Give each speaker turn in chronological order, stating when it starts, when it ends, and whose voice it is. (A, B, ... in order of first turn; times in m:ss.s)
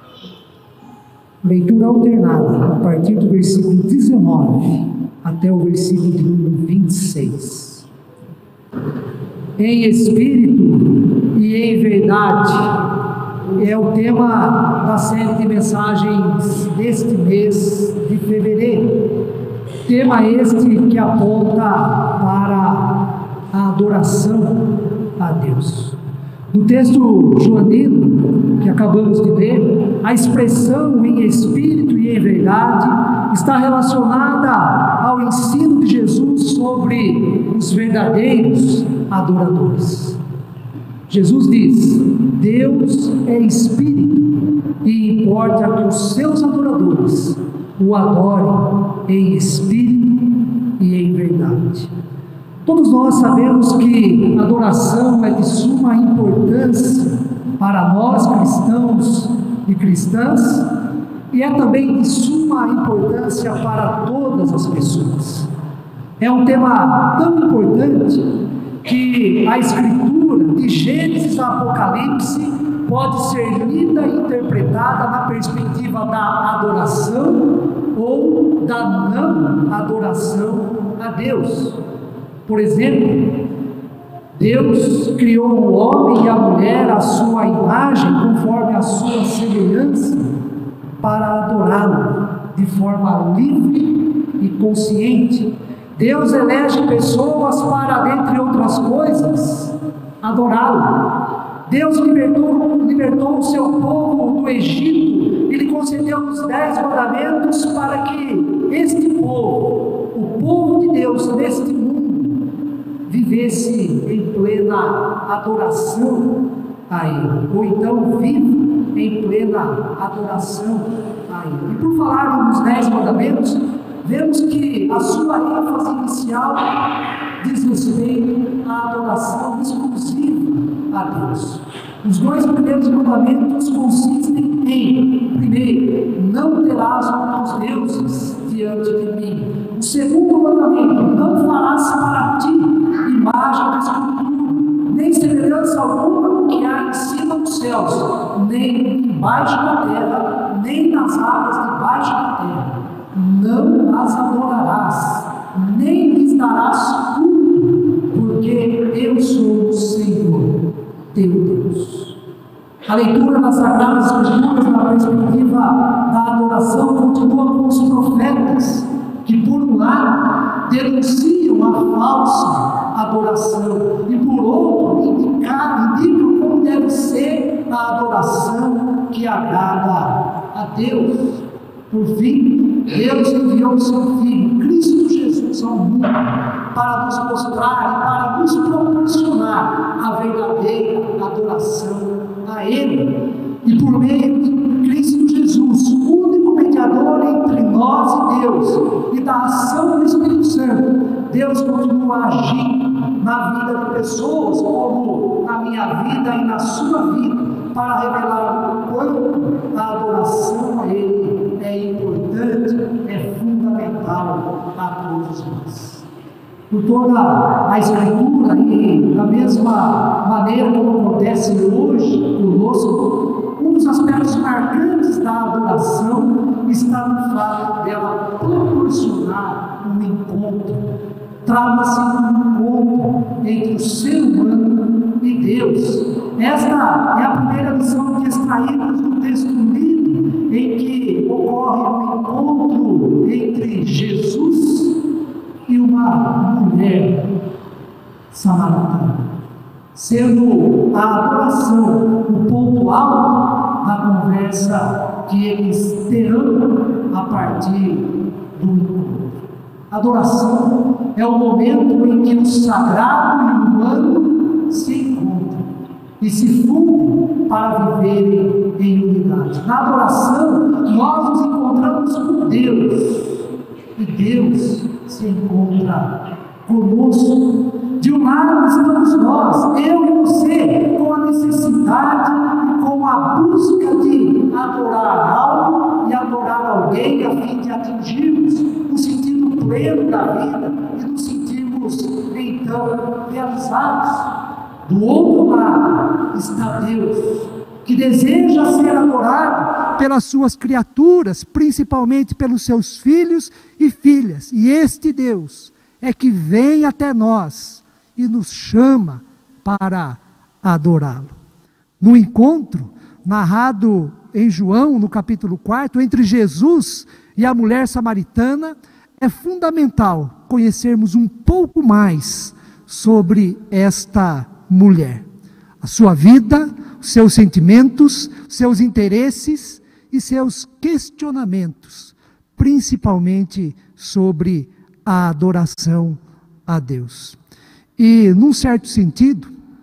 0:01.4-0:07.9 A
0:09.6-0:12.8 A
0:13.6-0:19.0 A
0:19.8-0:26.0 A
0:26.5-0:40.2 A
0:41.1-0:51.9 A
0:52.6-1:00.7 A
1:01.3-1:05.5 A
1:06.2-1:08.3 A
1:08.8-1:21.8 A
1:22.5-1:23.4 A
1:24.4-1:30.3 A
1:31.0-1:41.1 A
1:41.7-1:52.5 A
1:53.1-2:06.8 A
2:07.4-2:40.6 A
2:41.1-2:42.1 A
2:42.9-3:36.0 A
3:36.7-3:50.9 A
3:51.4-4:05.0 A
4:05.7-4:07.3 A
4:08.3-4:09.2 A
4:10.0-4:25.7 A
4:26.2-4:33.4 A
4:34.0-4:54.3 A
4:54.9-5:11.4 A
5:12.0-5:25.2 A
5:25.8-5:37.4 A
5:38.0-5:39.5 A